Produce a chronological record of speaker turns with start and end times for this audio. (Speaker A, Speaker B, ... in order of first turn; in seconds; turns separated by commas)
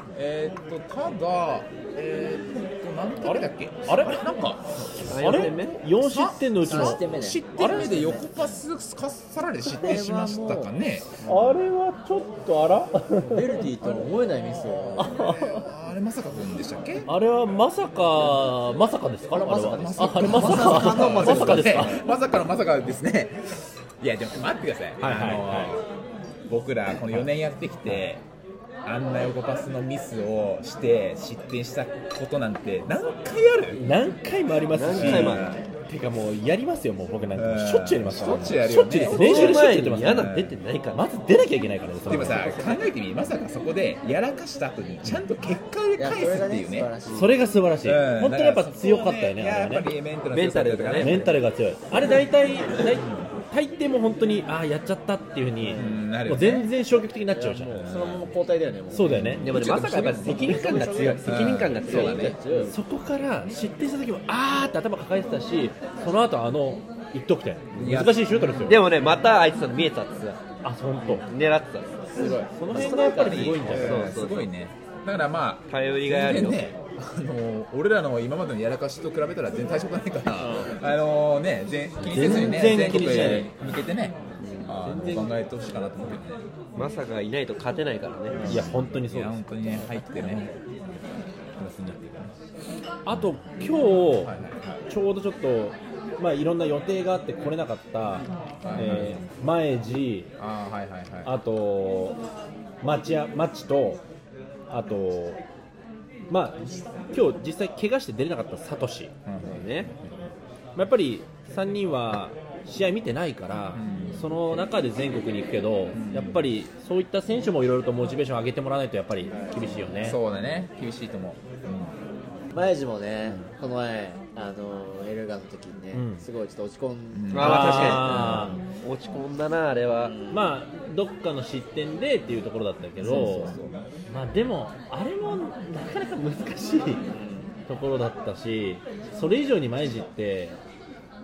Speaker A: 0.1-11.1, Speaker B: 3.2-4.2, Speaker B: 4.8-7.1, Speaker C: 5.1-5.8, Speaker D: 6.7-8.4, Speaker D: 9.8-11.6, Speaker B: 11.2-13.4, Speaker D: 13.2-15.4, Speaker B: 15.0-15.7, Speaker A: 15.5-17.1, Speaker B: 17.1-22.0, Speaker D: 19.3-22.1, Speaker A: 19.6-25.8, Speaker B: 25.0-25.8, Speaker A: 26.5-28.2, Speaker A: 28.9-33.8, Speaker B: 33.7-40.3, Speaker C: 34.7-35.6, Speaker A: 35.0-35.6, Speaker A: 37.4-40.6, Speaker C: 39.0-41.0, Speaker B: 40.9-42.5, Speaker A: 42.0-46.9, Speaker C: 42.1-42.8, Speaker D: 46.0-47.4, Speaker B: 47.1-49.9, Speaker A: 47.8-51.3, Speaker C: 50.3-51.3, Speaker B: 51.0-58.3, Speaker A: 53.0-53.3, Speaker D: 55.6-56.0, Speaker A: 55.8-56.7, Speaker D: 57.3-62.8, Speaker A: 57.8-58.2, Speaker B: 58.9-59.5, Speaker A: 59.0-62.4, Speaker C: 59.4-62.8, Speaker B: 62.7-68.8, Speaker C: 67.8-68.0, Speaker A: 67.8-68.7, Speaker C: 68.6-70.4, Speaker B: 70.6-71.3, Speaker C: 71.0-72.0, Speaker D: 72.1-73.8, Speaker B: 72.5-74.2, Speaker A: 72.7-86.4, Speaker C: 72.8-74.5, Speaker C: 75.7-76.6, Speaker D: 80.3-80.8, Speaker B: 82.0-83.5, Speaker D: 82.4-83.4, Speaker C: 84.4-84.7, Speaker B: 84.8-85.3, Speaker C: 86.8-88.6, Speaker D: 88.3-88.6, Speaker A: 88.4-90.5, Speaker B: 88.5-89.5, Speaker D: 89.9-90.5, Speaker A: 91.6-92.3, Speaker B: 93.0-94.3, Speaker A: 94.2-94.8, Speaker B: 94.9-100.3, Speaker A: 98.6-99.3, Speaker A: 100.4-101.3, Speaker B: 101.2-102.2, Speaker B: 102.8-104.0, Speaker B: 104.7-105.4, Speaker B: 106.3-109.1, Speaker A: 109.3-110.2, Speaker C: 109.4-109.9, Speaker B: 110.8-120.2, Speaker A: 113.7-114.4, Speaker A: 115.9-116.5, Speaker D: 119.3-120.1, Speaker A: 120.0-122.0, Speaker D: 122.5-128.6, Speaker B: 125.9-126.2, Speaker A: 127.1-128.6, Speaker C: 127.3-130.2, Speaker B: 127.4-128.6, Speaker D: 129.9-130.5, Speaker B: 130.3-133.6, Speaker A: 133.0-133.8, Speaker B: 134.1-137.1, Speaker D: 137.1-137.5, Speaker B: 137.7-140.6